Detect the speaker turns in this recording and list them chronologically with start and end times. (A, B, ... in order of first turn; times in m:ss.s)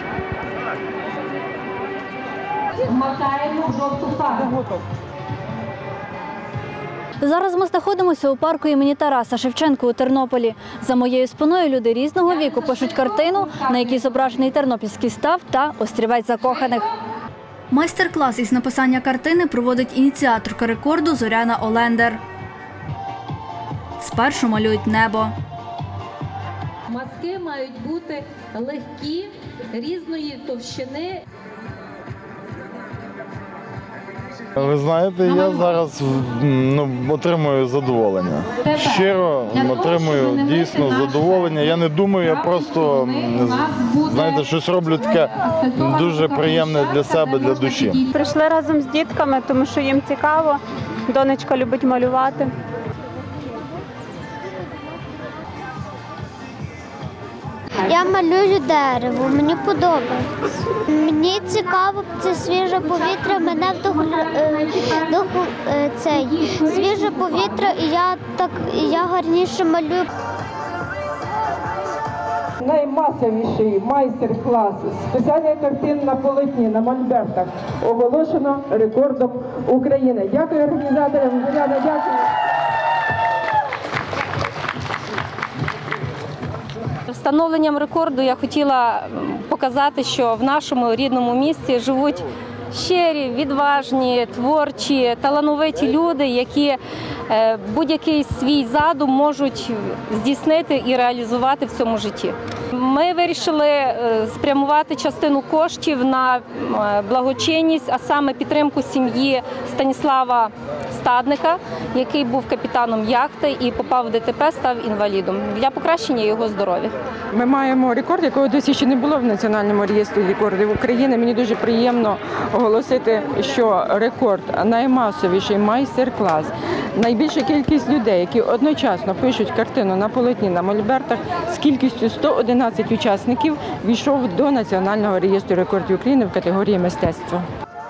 0:03.0-0:04.5 A
0:07.2-0:16.9 B
0:12.3-0:13.8 A
0:17.7-0:22.2 B
0:24.0-0:25.3 B
0:26.9-0:29.3 C
0:29.8-0:31.1 C
0:34.6-0:48.0 D
0:39.6-0:41.3 C
0:42.3-0:44.3 C
0:45.8-0:47.9 C
0:48.1-0:52.5 E
0:57.8-1:10.1 F
1:06.5-1:07.1 C
1:12.6-1:22.3 G
1:27.1-1:36.8 A
1:37.3-1:57.0 A
1:57.3-2:17.5 G